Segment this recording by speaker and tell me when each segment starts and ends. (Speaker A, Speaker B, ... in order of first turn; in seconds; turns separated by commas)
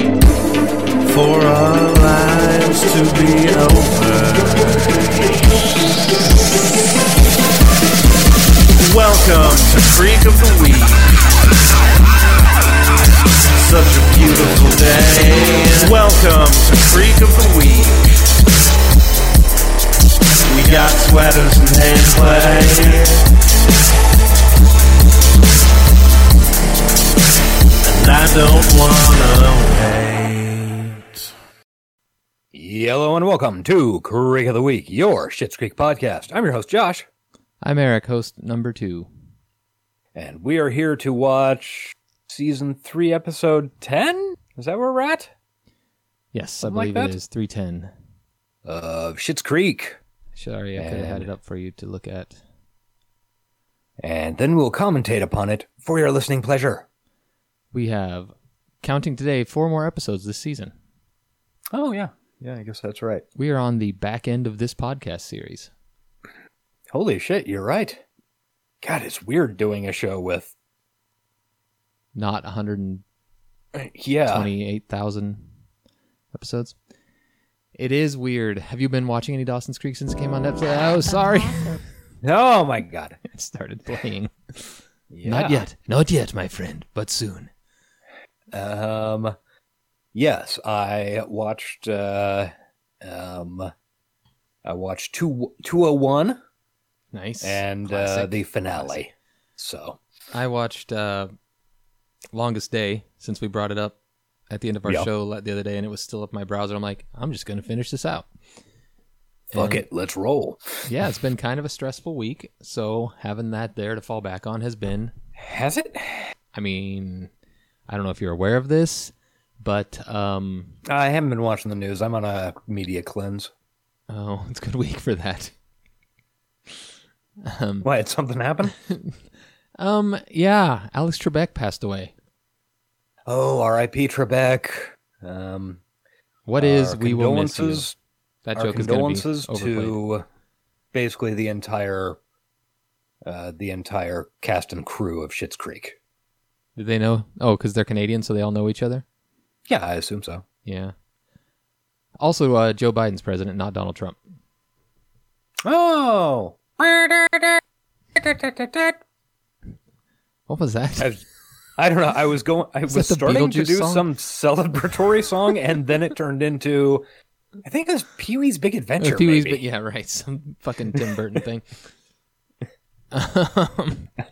Speaker A: 1.0-5.4, Speaker A: 8.8-11.2, Speaker A: 13.5-18.1, Speaker A: 20.4-23.3, Speaker A: 27.8-31.3, Speaker B: 32.5-37.1, Speaker C: 37.6-39.1, Speaker B: 40.1-45.3, Speaker C: 46.3-47.9, Speaker B: 46.6-47.1, Speaker B: 48.6-50.0, Speaker C: 50.4-52.4, Speaker B: 50.8-51.3, Speaker B: 54.0-56.9, Speaker C: 57.7-60.7, Speaker B: 61.7-63.2, Speaker C: 63.4-65.7, Speaker B: 66.9-68.0, Speaker B: 68.8-70.5, Speaker C: 72.2-73.0, Speaker B: 73.8-74.5, Speaker C: 74.3-75.5, Speaker C: 76.3-76.8, Speaker C: 77.8-81.8, Speaker B: 82.2-83.2, Speaker C: 83.2-87.5, Speaker B: 85.1-85.7, Speaker B: 88.5-89.3, Speaker B: 90.1-93.7, Speaker B: 94.6-96.4, Speaker C: 97.1-99.0, Speaker B: 97.4-100.0, Speaker C: 100.3-101.3, Speaker C: 102.3-104.0, Speaker C: 104.5-108.3, Speaker C: 109.5-109.8, Speaker B: 109.5-110.6, Speaker C: 110.9-115.1, Speaker B: 115.4-116.3, Speaker C: 116.5-117.3, Speaker C: 117.9-120.8, Speaker B: 120.8-123.5, Speaker C: 124.1-125.5, Speaker C: 127.4-127.9, Speaker B: 127.8-128.8, Speaker C: 128.7-129.2, Speaker C: 129.8-132.1, Speaker B: 133.3-135.8, Speaker C: 136.5-137.9, Speaker B: 136.6-137.9, Speaker C: 138.4-140.0, Speaker B: 138.6-140.2, Speaker B: 140.9-142.2, Speaker B: 143.2-146.0, Speaker C: 146.8-149.1, Speaker B: 149.7-150.4, Speaker C: 150.7-150.9, Speaker C: 152.2-154.2, Speaker B: 155.6-157.6, Speaker B: 158.2-159.0, Speaker C: 160.5-161.1, Speaker B: 161.8-167.1, Speaker C: 162.9-164.1, Speaker B: 167.6-169.6, Speaker C: 169.0-171.7, Speaker C: 173.1-174.1